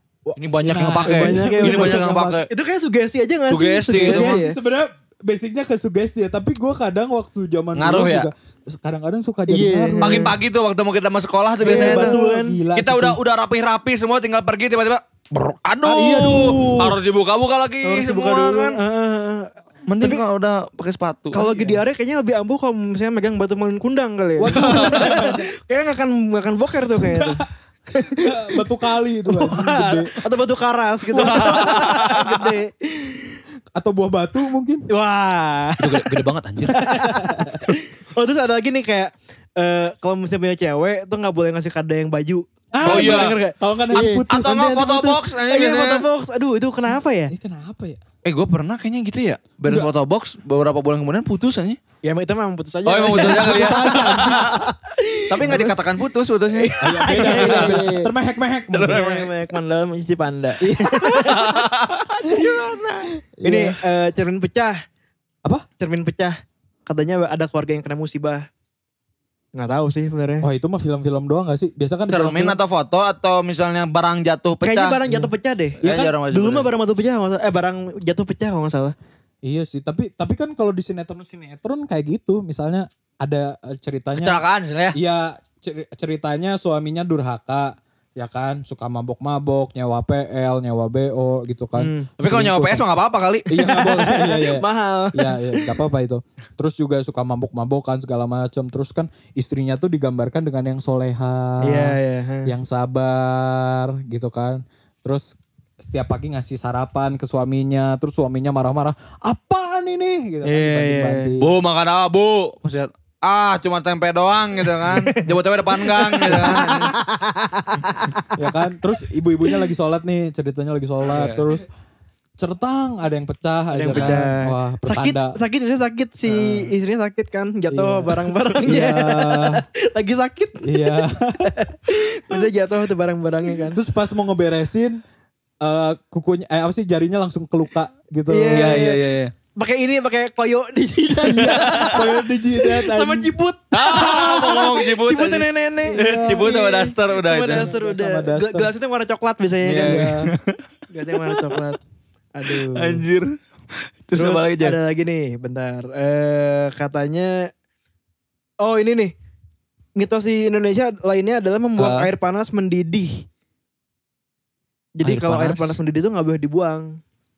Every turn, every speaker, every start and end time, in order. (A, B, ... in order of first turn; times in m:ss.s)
0:00.2-0:02.4 A
0:00.4-0:02.5 B
0:01.0-0:04.6 C
0:03.5-0:04.4 B
0:04.0-0:10.3 A
0:07.7-0:08.3 B
0:09.5-0:10.3 C
0:10.0-0:12.2 B
0:11.6-0:12.6 C
0:11.6-0:13.2 A
0:12.7-0:18.8 B
0:15.8-0:17.0 C
0:17.8-0:20.2 C
0:19.9-0:21.4 B
0:21.3-0:28.6 C
0:21.4-0:21.8 A
0:24.4-0:25.5 A
0:24.5-0:25.2 B
0:27.0-0:27.4 A
0:28.2-0:30.1 A
0:29.3-0:33.4 C
0:31.1-0:32.5 B
0:31.2-0:31.6 A
0:33.7-0:34.9 A
0:34.9-0:36.1 C
0:35.8-0:36.9 B
0:36.7-0:44.3 C
0:36.8-0:37.6 A
0:42.7-0:45.0 A
0:42.8-0:43.4 B
0:44.3-0:46.0 B
0:44.8-0:47.3 C
0:47.3-0:48.0 A
0:48.2-0:51.8 B
0:52.0-0:55.7 C
0:52.8-0:54.6 B
0:53.1-0:54.7 A
0:55.3-0:57.8 B
0:55.4-0:55.7 A
0:56.5-0:58.1 C
0:56.8-0:59.3 A
0:58.8-0:59.0 B
0:58.8-1:01.6 C
1:00.6-1:01.4 A
1:01.0-1:03.1 B
1:03.2-1:03.8 A
1:03.4-1:04.8 C
1:05.8-1:08.4 C
1:09.6-1:10.4 C
1:10.4-1:12.6 A
1:12.1-1:15.0 B
1:14.6-1:18.9 C
1:15.1-1:15.3 A
1:15.8-1:16.7 B
1:15.8-1:16.1 A
1:19.4-1:24.4 A
1:24.2-1:25.0 B
1:24.9-1:32.8 A
1:31.8-1:32.1 C
1:32.2-1:33.5 B
1:33.5-1:51.6 A
1:33.5-1:35.7 C
1:41.6-1:42.5 C
1:50.4-1:51.3 C
1:51.4-1:56.9 B
1:54.7-1:58.5 C
1:56.3-1:56.8 A
1:58.3-2:01.7 A
2:01.1-2:01.4 B
2:02.4-2:05.4 A
2:03.7-2:10.9 C
2:03.9-2:04.2 B
2:06.3-2:06.7 A
2:07.7-2:09.6 A
2:10.6-2:11.5 A
2:11.4-2:13.8 C
2:13.7-2:15.0 A
2:15.6-2:19.0 A
2:18.3-2:19.0 C
2:18.5-2:19.3 B
2:19.6-2:30.1 C
2:21.2-2:23.3 A
2:21.4-2:21.9 B
2:23.7-2:27.7 B
2:25.9-2:26.5 A
2:27.5-2:28.7 A
2:29.6-2:30.3 A
2:29.7-2:30.6 B
2:30.9-2:31.8 C
2:31.2-2:31.6 B
2:32.3-2:33.0 C
2:32.5-2:33.3 B
2:34.1-2:34.7 B
2:34.1-2:37.5 C
2:38.6-2:39.1 C
2:40.0-2:43.2 C
2:41.8-2:42.1 B
2:45.0-2:47.0 C
2:45.0-2:45.8 B